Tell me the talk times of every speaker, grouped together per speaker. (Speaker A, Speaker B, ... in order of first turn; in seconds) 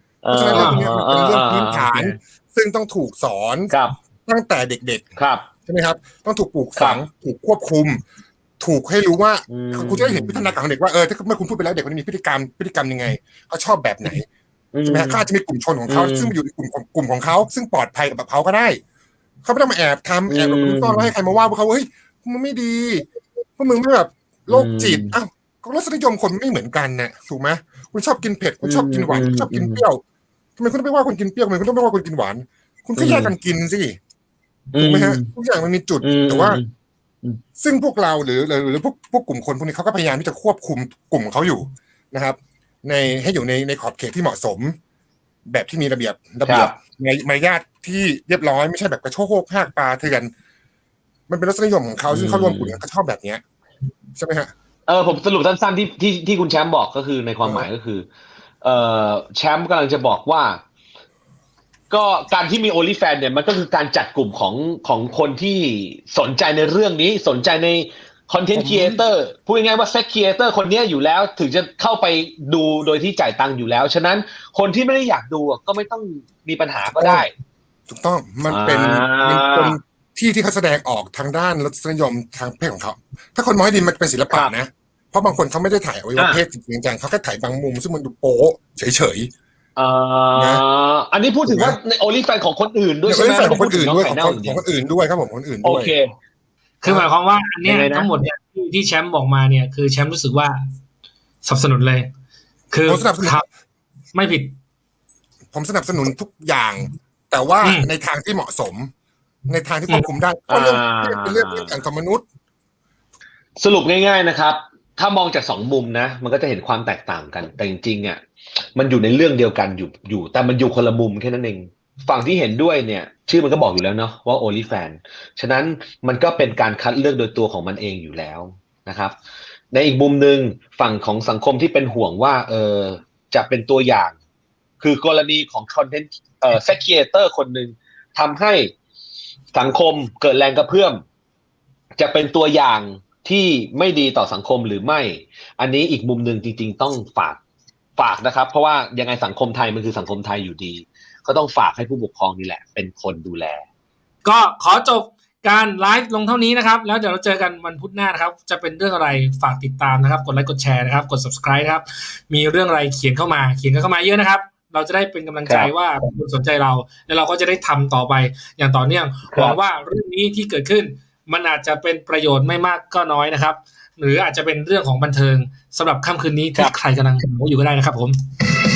Speaker A: 0.2-2.2, 3.7-4.0, 5.2-5.5, 6.8-7.0, 9.5-10.6, 14.7-15.2, 15.9-16.4, 20.3-21.1, 24.5-25.2, 28.6-29.9, 33.0-33.3, 34.7-35.3, 36.0-36.7, 46.5-46.8, 52.1-52.8, 54.9-58.1, 58.6-60.6, 61.9-77.3, 78.5-79.8, 86.2-86.4, 89.8-94.6, 95.6-96.1, 97.7-98.1, 110.5-111.8, 113.6-118.2, 118.8-129.2, 129.7-134.2, 134.8-138.7, 139.5-141.0, 142.0-147.4, 148.0-153.7, 165.4-165.7, 169.3-169.6
Speaker B: 0.3-5.1, 5.7-8.0, 8.6-14.3, 14.9-18.8, 19.4-30.0, 30.6-34.0, 34.8-36.6, 37.6-44.8, 45.5-50.3, 51.3-53.4, 54.1-54.5, 57.4-57.7, 68.5-69.0, 76.8-77.3, 77.9-89.3, 90.3-90.6, 91.5-91.8, 93.1-95.9, 102.9-103.4, 105.5-108.9, 109.5-112.2
Speaker C: 0.5-0.9, 96.8-100.7, 101.4-102.1, 102.7-103.5, 104.1-104.5, 107.6-107.9, 154.2-178.2